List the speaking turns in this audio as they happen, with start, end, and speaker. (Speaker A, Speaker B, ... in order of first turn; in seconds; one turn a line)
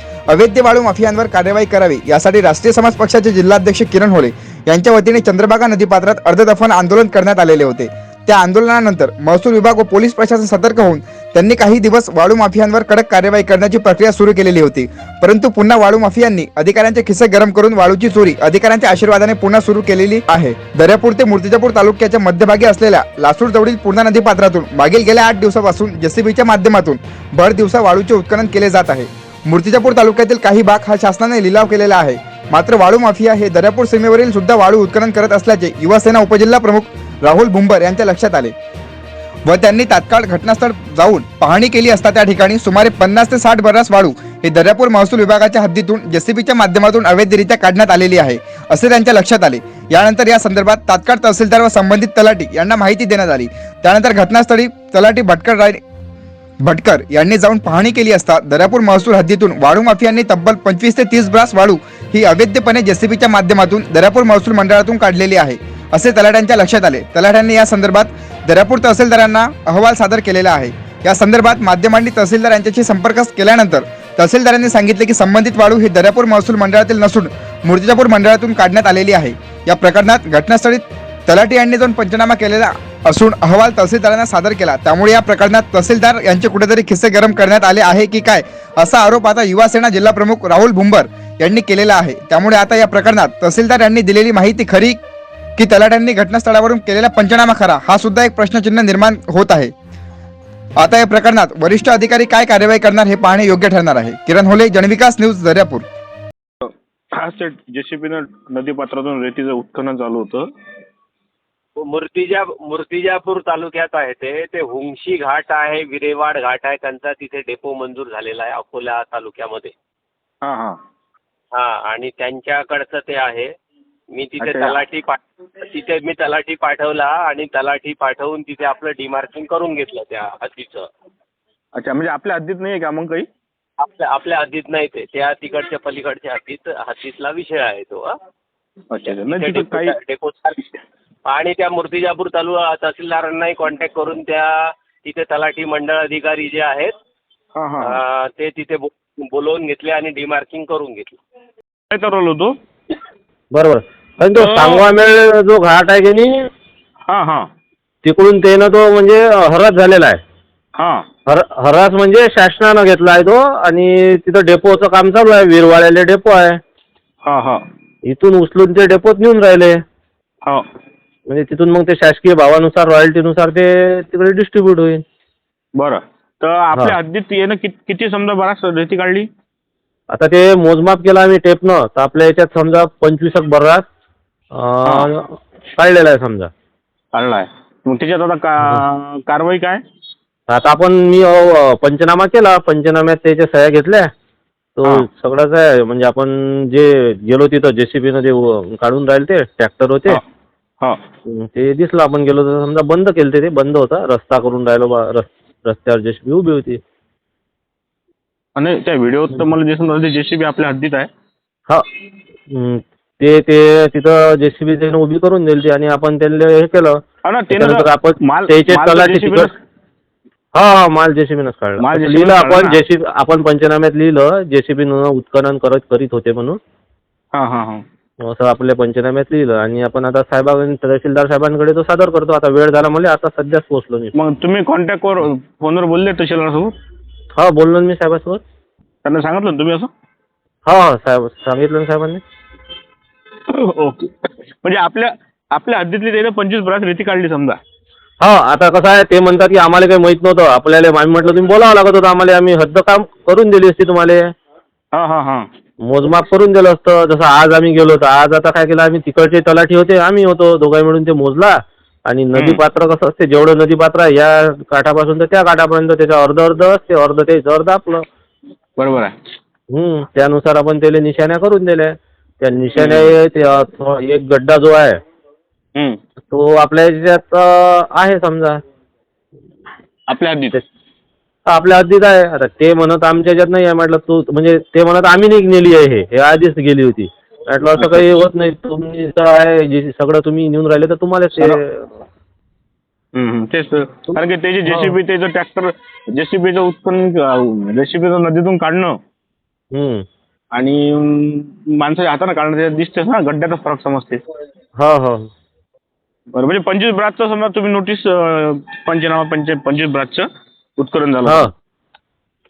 Speaker A: 0.3-38.5
Speaker A: 39.5-55.8
Speaker A: 56.6-95.0
Speaker A: 95.6-99.7
Speaker A: 100.8-105.9
Speaker B: 106.6-110.5
Speaker C: 111.8-119.7
Speaker B: 120.4-120.8
Speaker C: 121.5-123.5
Speaker C: 124.1-130.9
Speaker B: 124.4-124.8
Speaker B: 131.8-133.3
Speaker C: 133.8-138.1
Speaker B: 138.9-140.0
Speaker C: 139.1-140.6
Speaker C: 141.3-146.9
Speaker B: 147.6-148.0
Speaker C: 147.8-151.1
Speaker B: 151.9-152.6
Speaker D: 153.5-156.5
Speaker B: 154.3-154.9
Speaker B: 157.1-157.5
Speaker D: 158.0-160.2
Speaker B: 160.8-161.1
Speaker D: 161.3-166.6
Speaker B: 167.2-167.6
Speaker D: 168.1-169.8
Speaker D: 171.3-175.0
Speaker B: 175.8-179.3
Speaker D: 180.1-183.8
Speaker D: 184.6-186.5
Speaker B: 184.8-185.1
Speaker B: 187.1-189.8
Speaker D: 190.5-194.1
Speaker D: 194.8-200.2
Speaker D: 201.3-206.8
Speaker B: 208.6-211.1
Speaker D: 212.5-217.0
Speaker B: 217.2-219.6
Speaker D: 217.5-219.5
Speaker D: 220.6-226.6
Speaker B: 221.8-222.8
Speaker B: 227.3-227.8
Speaker D: 228.2-234.1
Speaker B: 234.2-236.8
Speaker D: 237.4-238.4
Speaker B: 239.0-239.9
Speaker D: 240.7-242.2
Speaker B: 243.5-244.1
Speaker B: 244.6-247.6
Speaker D: 248.2-254.3
Speaker B: 254.9-255.5
Speaker D: 255.8-268.0
Speaker B: 262.3-262.6
Speaker B: 268.8-269.1
Speaker D: 269.7-275.0
Speaker B: 272.7-273.1
Speaker D: 276.3-278.6
Speaker B: 280.1-280.6
Speaker D: 281.5-292.0
Speaker B: 287.7-288.1
Speaker B: 293.1-299.0
Speaker D: 294.7-295.0
Speaker D: 299.8-300.1
Speaker B: 300.5-304.2
Speaker D: 304.8-305.3
Speaker B: 306.3-311.5